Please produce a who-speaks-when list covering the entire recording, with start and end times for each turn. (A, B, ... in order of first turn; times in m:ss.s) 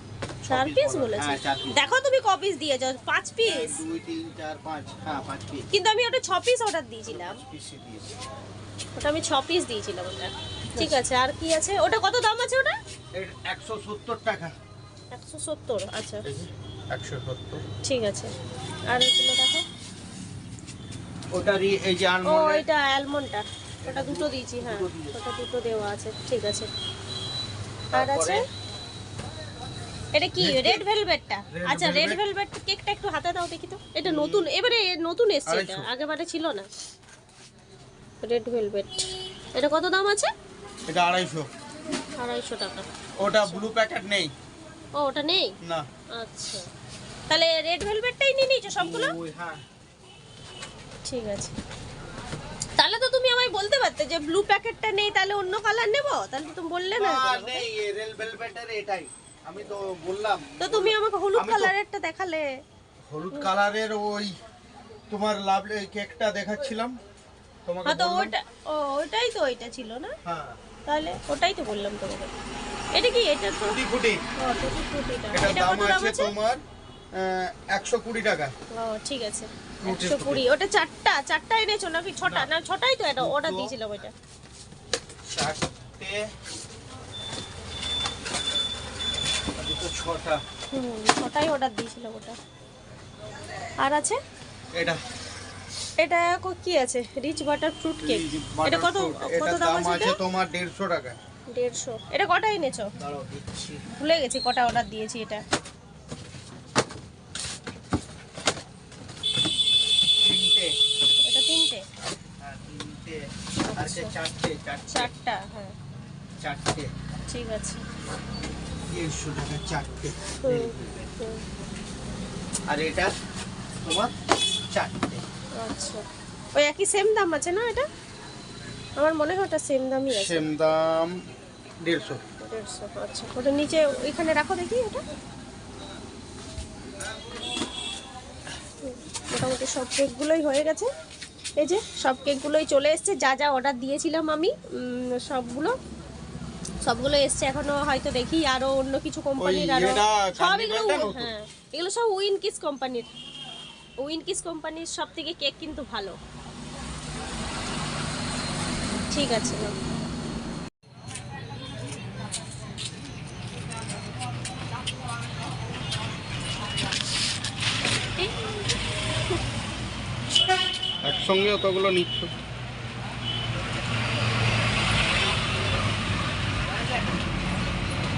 0:00.4-0:01.8 A
0:00.5-0:03.8 B
0:03.4-0:05.7 A
0:05.7-0:07.4 B
0:07.1-0:08.1 A
0:09.0-0:12.8 B
0:10.8-0:11.0 A
0:13.2-0:14.6 A
0:15.1-0:16.2 B
0:16.2-0:17.6 A
0:17.8-0:18.3 B
0:18.9-0:19.6 B
0:21.3-0:22.7 A
0:22.3-0:26.7 B
0:23.8-0:25.2 A
0:27.9-0:28.4 B
0:27.9-0:28.4 A
0:30.2-0:36.7 B
0:30.4-0:30.8 A
0:31.5-0:32.2 A
0:34.0-0:34.5 A
0:35.5-0:35.9 A
0:38.2-0:40.3 B
0:40.9-0:41.5 A
0:42.2-0:42.9 B
0:43.2-0:44.3 A
0:45.0-0:45.5 B
0:46.2-0:46.7 B
0:47.3-0:49.1 B
0:48.8-0:49.6 A
0:51.1-0:51.6 B
0:52.8-0:57.6 B
0:57.0-1:01.7 A
1:00.6-1:02.5 B
1:03.1-1:04.3 A
1:05.1-1:07.0 A
1:07.7-1:08.3 A
1:07.9-1:10.2 B
1:10.2-1:10.6 A
1:10.9-1:12.3 B
1:12.9-1:13.8 B
1:13.7-1:14.2 A
1:14.4-1:16.3 B
1:15.3-1:16.6 A
1:17.2-1:18.5 A
1:18.7-1:24.1 B
1:19.8-1:20.5 A
1:22.2-1:22.5 A
1:23.2-1:23.8 A
1:25.3-1:26.2 A
1:29.6-1:30.4 A
1:30.7-1:32.4 B
1:33.8-1:34.2 B
1:34.7-1:35.0 A
1:36.0-1:40.2 B
1:38.0-1:41.2 A
1:41.5-1:42.9 B
1:43.0-1:43.8 A
1:43.9-1:45.4 B
1:50.2-1:50.7 A
1:51.2-1:51.8 B
1:52.4-1:53.2 A
1:53.7-1:54.1 B
1:53.8-1:55.1 A
1:54.9-1:55.8 B
1:56.4-1:56.9 A
1:57.3-1:57.8 B
1:58.9-2:01.1 A
2:00.4-2:01.4 B
2:02.7-2:03.1 A
2:03.8-2:04.1 A
2:04.7-2:05.2 A
2:05.6-2:06.0 B
2:06.6-2:07.9 B
2:09.0-2:10.5 B
2:10.1-2:11.2 A
2:11.8-2:12.2 A
2:12.4-2:15.0 B
2:18.8-2:20.9 B
2:21.6-2:25.7 B
2:26.8-2:33.1 B
2:29.4-2:31.3 A
2:34.0-2:36.2 B
2:39.1-2:39.7 B
2:48.0-2:48.3 B
2:51.0-2:52.3 A